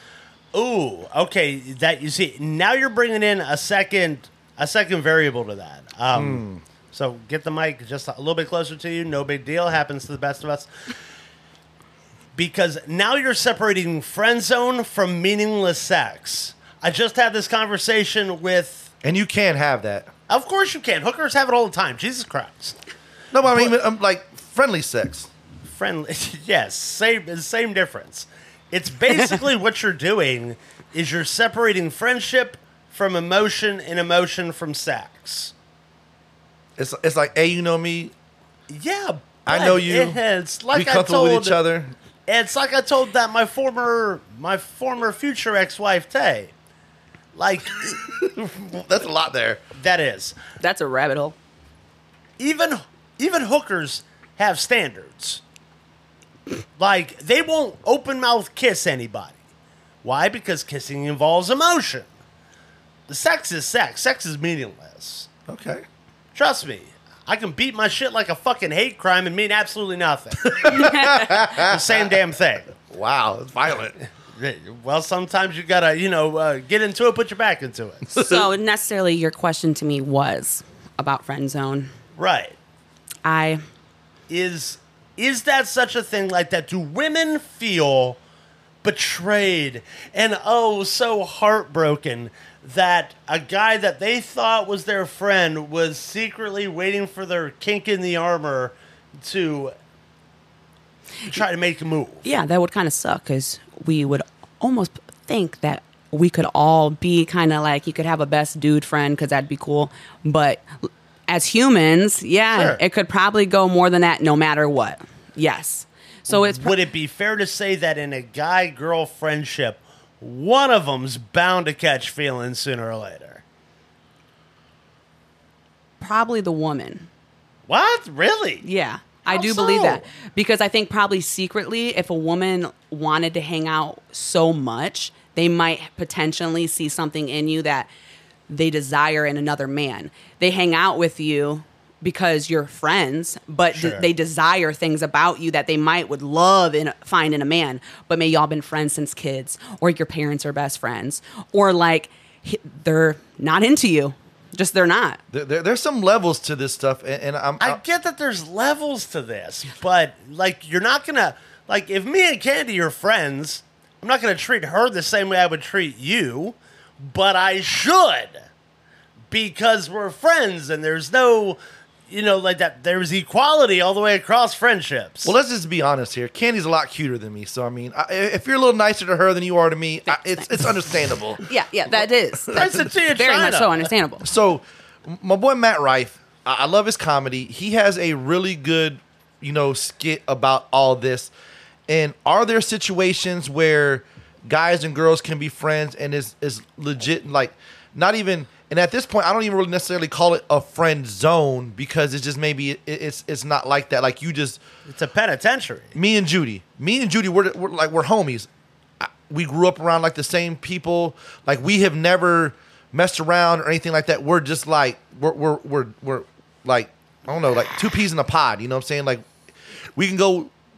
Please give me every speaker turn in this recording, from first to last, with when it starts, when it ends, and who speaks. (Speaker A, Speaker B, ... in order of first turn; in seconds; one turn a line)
Speaker A: 0.5-10.7
Speaker B: 6.1-6.6
Speaker A: 12.3-18.9
Speaker B: 19.0-20.1
Speaker A: 20.3-22.8
Speaker B: 23.3-25.3
Speaker A: 23.4-23.8
Speaker A: 25.6-35.5
Speaker B: 36.8-38.1
Speaker A: 38.7-41.6
Speaker B: 39.5-40.2
Speaker B: 40.7-41.9
Speaker A: 42.3-46.5
Speaker A: 47.3-48.0
Speaker B: 48.0-49.6
Speaker A: 49.7-50.4
Speaker C: 50.6-51.4
Speaker A: 52.4-55.4
Speaker A: 56.8-59.4
Speaker A: 60.0-62.1
Speaker A: 63.1-65.3
Speaker B: 65.5-65.8
Speaker A: 66.3-70.7
Speaker B: 70.5-72.2
Speaker C: 70.6-71.3
Speaker A: 71.2-72.7
Speaker B: 72.8-74.0
Speaker A: 74.3-78.4
Speaker B: 78.1-78.4
Speaker C: 78.2-81.9
Speaker A: 82.2-82.5
Speaker C: 83.2-83.6
Speaker A: 84.3-88.2
Speaker A: 88.8-99.7
Speaker A: 101.3-102.3
Speaker C: 102.2-116.8
Speaker A: 112.5-112.8
Speaker A: 116.3-123.4
Speaker C: 126.0-127.1
Speaker A: 127.7-128.6
Speaker C: 128.6-137.9
Speaker A: 129.3-130.0
Speaker C: 138.5-155.2
Speaker A: 143.7-144.1
Speaker B: 155.3-157.8
Speaker A: 157.6-168.4
Speaker A: 169.3-175.3
Speaker B: 175.2-181.4
Speaker C: 180.1-180.8
Speaker C: 181.4-184.2
Speaker A: 182.5-183.9
Speaker B: 184.2-191.3
Speaker B: 191.9-204.6
Speaker A: 204.9-205.9
Speaker B: 205.9-208.5
Speaker B: 209.0-219.2
Speaker B: 219.9-220.5